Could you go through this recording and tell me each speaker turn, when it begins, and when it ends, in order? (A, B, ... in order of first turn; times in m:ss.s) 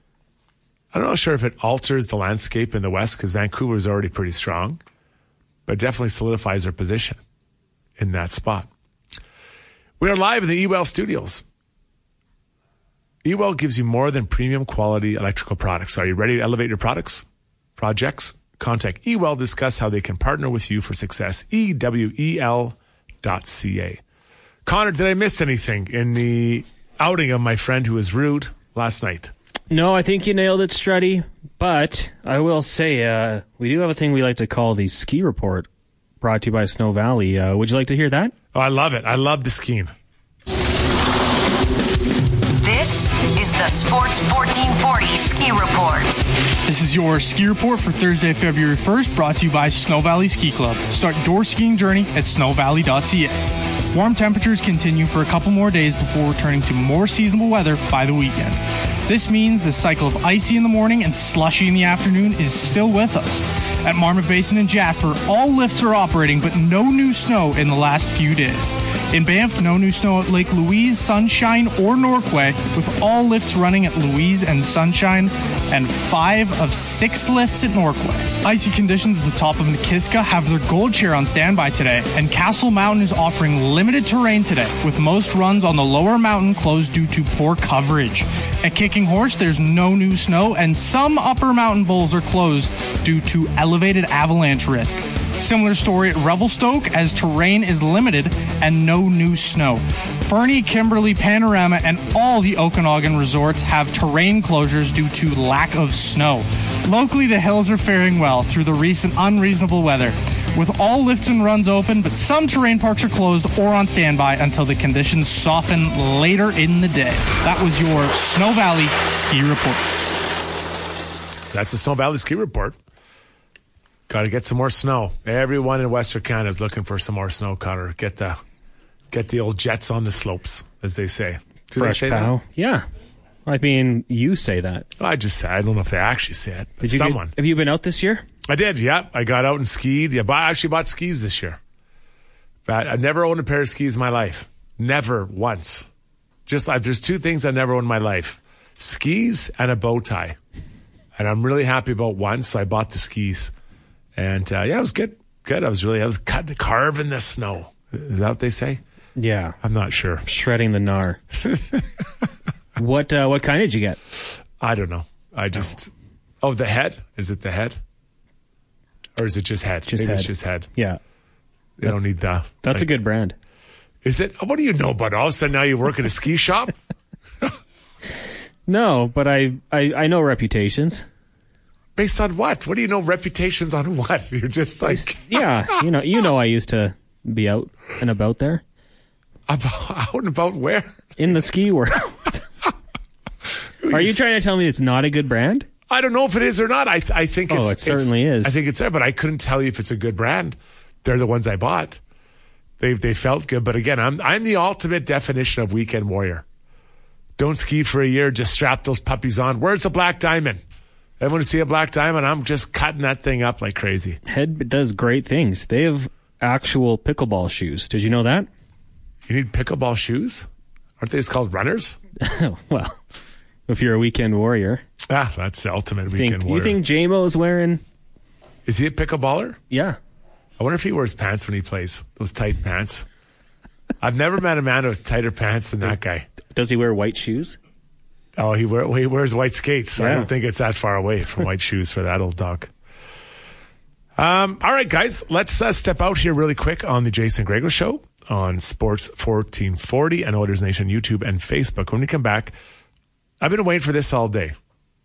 0:00.9-0:04.8 A
0:05.6-0:07.2 A
0:08.0-0:08.7 A
0:10.0-0:11.4 A
0:13.2-0:24.0 A
0:24.6-0:29.3 A
0:29.7-0:35.7 B
0:36.2-0:38.3 B
0:38.5-0:39.9 A
0:42.6-0:46.2 C
0:46.7-1:59.9 D
2:01.5-2:02.8 A
2:04.1-2:08.4 A
2:09.1-2:12.3 A
2:11.8-2:12.8 B
2:13.4-2:14.9 B
2:15.0-2:17.3 A
2:16.8-2:18.2 B
2:18.4-2:21.6 A
2:22.6-2:25.9 A
2:26.4-2:30.4 A
2:31.2-2:33.5 A
2:34.2-2:38.8 A
2:39.2-2:39.6 B
2:39.6-2:40.2 A
2:40.2-2:41.2 B
2:41.4-2:42.0 A
2:42.8-2:44.0 B
2:44.6-2:47.8 A
2:49.2-2:50.7 A
2:49.9-2:51.0 B
2:51.8-2:52.9 A
2:52.6-2:53.4 B
2:54.0-2:56.8 A
2:58.7-3:01.0 B
3:02.0-3:05.4 A
3:04.8-3:08.6 B
3:09.5-3:11.1 A
3:11.2-3:12.4 B
3:13.8-3:14.2 A
3:13.9-3:15.7 B
3:15.9-3:22.0 A
3:17.5-3:18.6 B
3:22.8-3:26.4 A
3:27.4-3:30.6 A
3:31.2-3:34.2 A
3:34.3-3:38.5 B
3:39.3-3:40.5 A
3:41.0-3:42.0 A
3:42.2-3:43.0 B
3:43.7-3:44.8 B
3:45.1-3:46.8 A
3:46.1-3:47.8 B
3:48.6-3:49.6 A
3:49.7-3:50.0 B
3:50.6-3:53.0 A
3:54.0-3:56.3 A
3:56.5-3:57.6 B
3:58.4-4:02.7 A
4:00.0-4:00.3 B
4:04.2-4:12.5 A
4:13.4-4:14.6 A